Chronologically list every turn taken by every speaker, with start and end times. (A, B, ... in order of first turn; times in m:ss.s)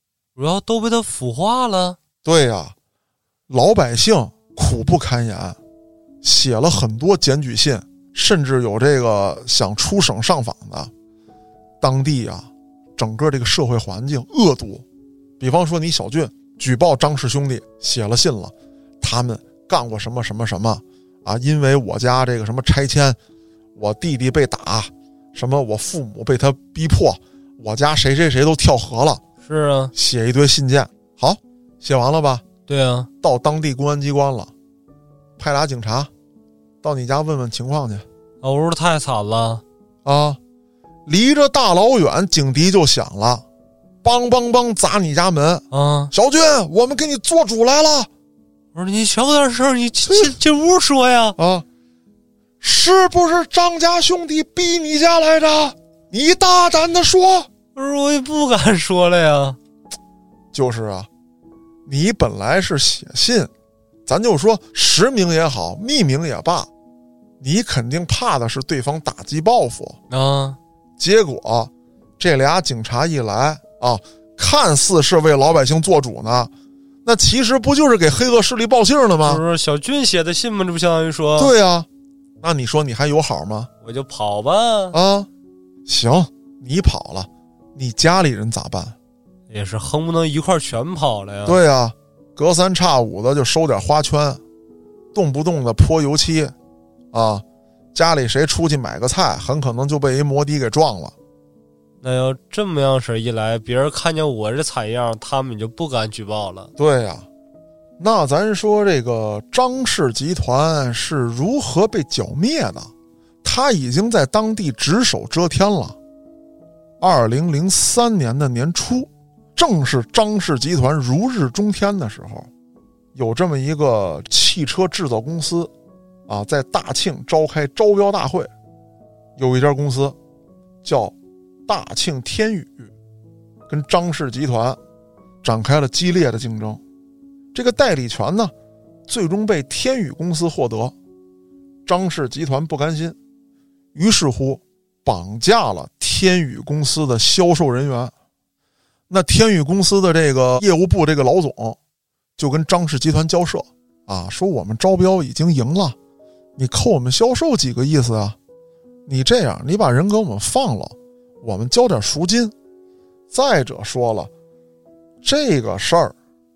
0:00.4-0:02.0 A
0:02.2-0:02.7 B
0:03.5-0:05.6 B
0:06.2-0:10.9 B
0:11.8-0:14.8 B
0:15.4-0:23.2 B
0:23.8-0:29.2 B
0:29.4-0:29.9 A
0:29.9-0:32.4 B
0:32.7-0:33.1 A
0:33.2-0:34.5 B
0:35.4-0:36.1 B
0:36.8-0:38.0 B
0:38.4-0:39.6 A
0:40.0-0:40.4 B
0:41.1-0:43.4 B
0:44.0-0:48.1 B
0:45.7-0:46.1 A
0:48.7-0:51.4 A
0:51.4-0:51.6 B
0:52.6-0:57.5 B
0:57.8-0:59.6 A
1:00.5-1:01.1 B
1:01.8-1:03.5 B
1:04.0-1:06.7 B
1:07.4-1:10.0 B
1:10.1-1:10.6 A
1:11.0-1:16.5 B
1:17.0-1:19.4 B
1:19.2-1:21.5 A
1:21.4-1:21.9 B
1:22.4-1:23.7 B
1:23.8-1:25.0 A
1:24.9-1:25.3 B
1:25.8-1:29.0 B
1:29.5-1:31.6 A
1:31.4-1:34.4 B
1:35.1-1:36.5 B
1:37.1-1:41.1 B
1:42.0-1:46.7 A
1:46.8-1:47.2 B
1:48.0-1:52.9 B
1:53.4-1:56.0 B
1:57.0-2:02.5 B
2:03.1-2:05.7 B
2:06.3-2:08.5 B
2:09.4-2:10.2 B
2:10.8-2:11.1 B
2:11.7-2:12.9 B
2:13.7-2:14.8 B
2:15.4-2:16.8 B
2:17.5-2:18.5 B
2:19.1-2:20.9 B
2:21.8-2:23.2 B
2:23.9-2:28.1 B
2:29.1-2:31.8 B
2:32.4-2:36.0 B
2:36.6-2:38.4 B
2:39.1-2:42.5 B
2:43.3-2:44.3 B
2:45.2-2:46.1 B